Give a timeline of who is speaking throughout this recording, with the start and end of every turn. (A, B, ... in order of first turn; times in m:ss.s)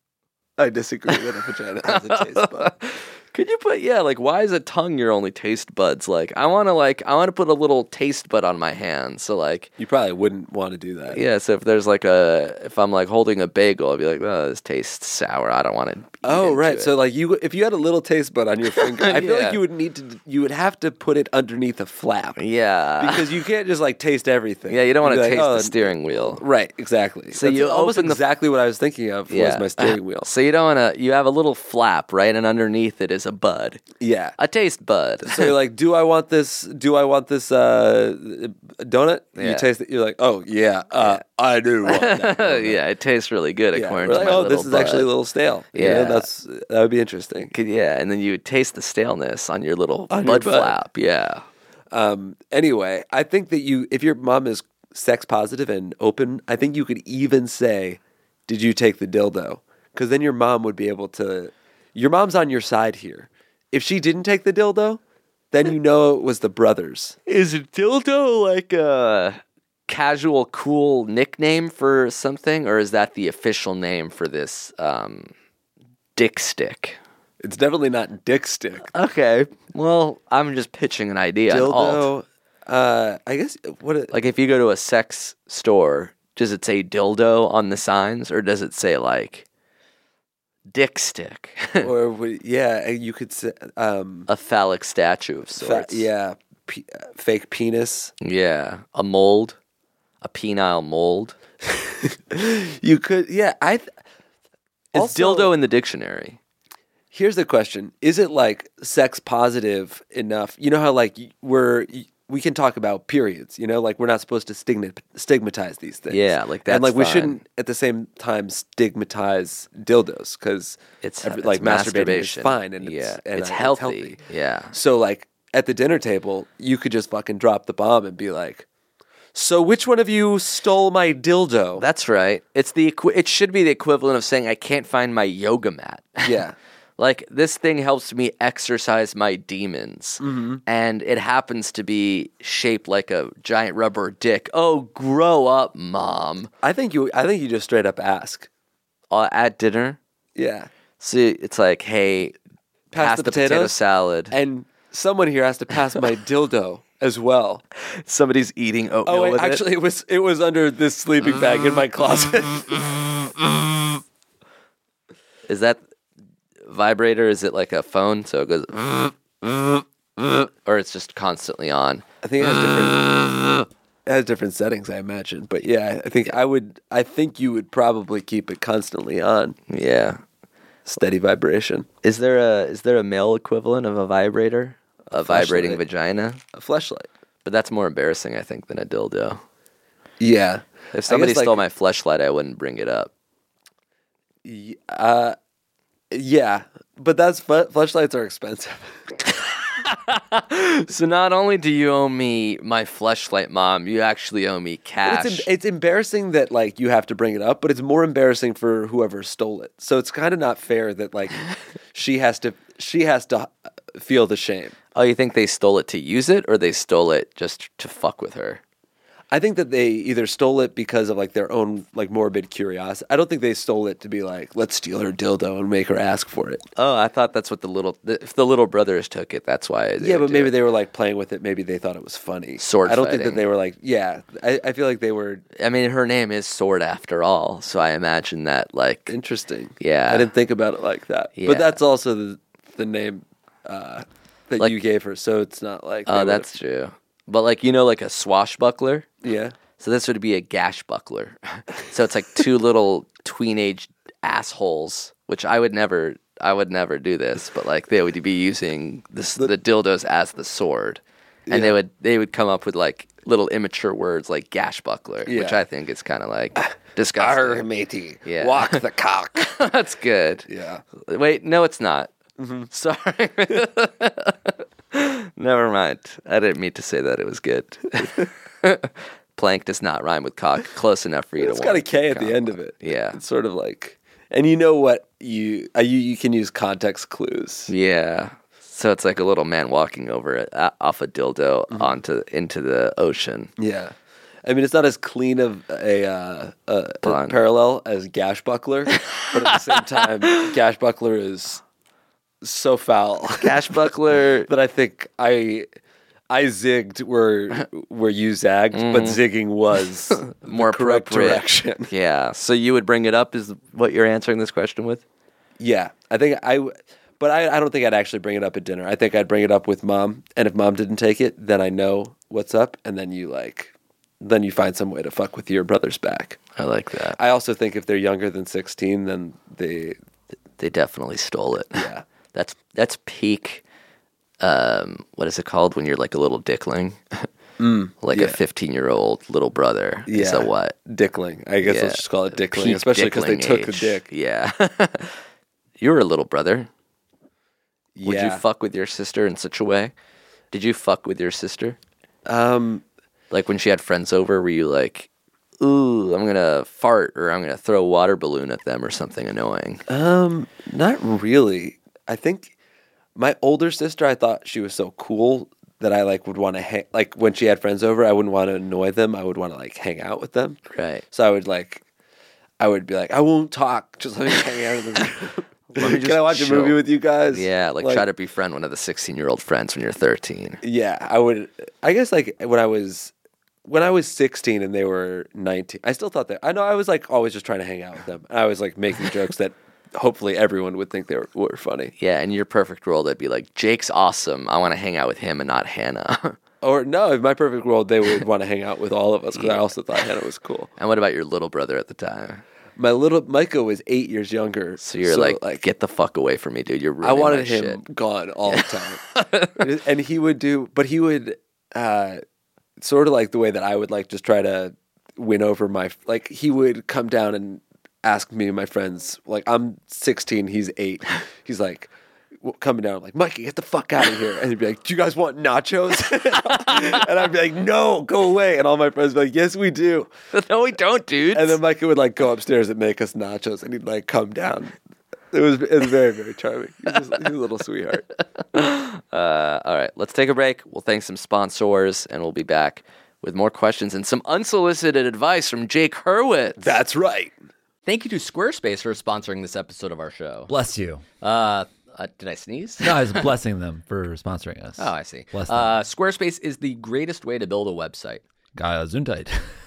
0:00.6-0:02.7 A
0:01.9-0:09.7 B
0:09.8-0:11.2 A
0:11.1-0:16.9 B
0:16.2-0:22.4 A
0:18.8-0:19.6 B
0:22.4-0:23.3 B
0:23.0-0:30.3 A
0:24.7-0:26.4 B
0:27.3-0:28.2 B
0:29.3-0:33.8 B
0:34.0-0:34.4 A
0:34.4-0:35.5 B
0:35.2-0:42.8 A
0:39.4-0:39.6 B
0:41.8-0:45.1 B
0:43.7-0:47.5 A
0:45.7-0:46.2 B
0:47.5-0:51.4 B
0:50.1-0:50.8 A
0:51.9-1:05.0 A
1:05.5-1:07.2 A
1:07.3-1:15.3 B
1:16.2-1:17.0 B
1:17.4-1:18.9 A
1:18.9-1:22.1 B
1:21.5-1:24.1 A
1:24.1-1:29.4 B
1:30.7-1:31.9 B
1:31.8-1:34.3 A
1:34.3-1:36.1 B
1:35.6-1:38.1 A
1:38.2-1:39.6 B
1:40.2-1:41.4 B
1:41.8-1:43.9 A
1:44.9-1:45.5 A
1:44.9-1:46.4 B
1:47.1-2:04.2 A
1:56.1-1:57.4 B
2:01.0-2:04.7 B
2:04.7-2:08.6 A
2:09.3-2:11.8 A
2:11.8-2:16.4 B
2:16.2-2:16.5 A
2:17.0-2:26.5 B
2:20.2-2:20.6 A
2:26.6-2:28.5 A
2:29.1-2:30.0 B
2:30.3-2:30.7 A
2:31.0-2:32.3 B
2:32.9-2:33.8 A
2:33.0-2:34.3 B
2:34.3-2:37.6 A
2:38.0-2:39.6 B
2:39.0-2:43.3 A
2:45.5-2:45.8 B
2:46.6-2:49.5 B
2:50.6-2:52.0 B
2:52.2-2:59.6 A
2:59.7-3:00.2 B
3:00.9-3:01.9 A
3:02.0-3:06.4 B
3:05.1-3:05.8 A
3:06.5-3:07.1 A
3:07.4-3:09.4 B
3:10.2-3:11.6 A
3:10.9-3:13.1 B
3:14.4-3:15.4 A
3:16.1-3:19.2 A
3:19.7-3:25.5 B
3:25.0-3:31.4 A
3:31.9-3:34.7 A
3:34.9-3:38.6 B
3:39.3-3:46.6 A
3:46.8-3:50.5 B
3:50.0-3:55.4 A
3:52.6-3:53.4 B
3:55.6-3:59.1 B
3:59.1-4:06.5 A
3:59.8-4:00.3 B
4:01.4-4:01.8 B
4:06.1-4:09.1 B
4:09.2-4:09.5 A
4:09.8-4:27.6 B
4:21.5-4:21.7 A
4:25.2-4:25.6 A
4:26.6-4:29.5 A
4:28.2-4:28.8 B
4:29.4-4:30.5 B
4:30.5-4:30.8 A
4:31.0-4:32.1 B
4:32.4-4:32.7 A
4:32.7-4:43.2 B
4:41.4-4:47.7 A
4:47.7-4:53.5 B
4:51.7-4:52.0 A
4:53.6-5:01.6 A
4:57.0-4:57.4 B
4:59.0-5:00.5 B
5:02.4-5:03.7 A
5:03.4-5:04.5 B
5:04.4-5:05.7 A
5:06.3-5:11.9 A
5:08.7-5:09.2 B
5:10.2-5:15.0 B
5:15.6-5:26.4 A
5:26.6-5:27.2 B
5:27.1-5:30.0 A
5:30.6-5:33.6 B
5:31.7-5:32.0 A
5:34.4-5:37.3 B
5:37.6-5:38.4 A
5:38.0-5:40.8 B
5:40.1-5:44.1 A
5:41.6-5:45.2 B
5:45.8-5:46.7 B
5:47.9-5:48.4 A
5:48.0-5:49.9 B
5:50.5-5:51.8 B
5:52.2-5:52.8 A
5:53.3-5:55.1 B
5:55.6-5:59.8 B
5:59.9-6:02.5 A
6:03.2-6:10.6 A
6:10.7-6:11.0 B
6:11.1-6:11.8 A
6:12.6-6:18.0 A
6:15.7-6:20.6 B
6:20.6-6:23.1 A
6:23.6-6:31.9 A
6:32.0-6:36.4 B
6:36.6-6:40.7 A
6:40.8-6:42.4 B
6:42.8-6:45.6 A
6:44.8-6:47.8 B
6:47.0-6:49.0 A
6:48.5-6:49.6 B
6:49.5-6:52.2 A
6:52.8-7:10.1 A
7:10.3-7:11.6 B
7:11.3-7:14.7 A
7:15.3-7:18.1 A
7:18.5-7:26.7 B
7:26.6-7:27.3 A
7:27.8-7:30.5 B
7:30.5-7:31.0 C
7:31.2-7:33.3 B
7:32.8-7:35.7 C
7:34.8-7:38.2 B
7:38.6-7:39.4 C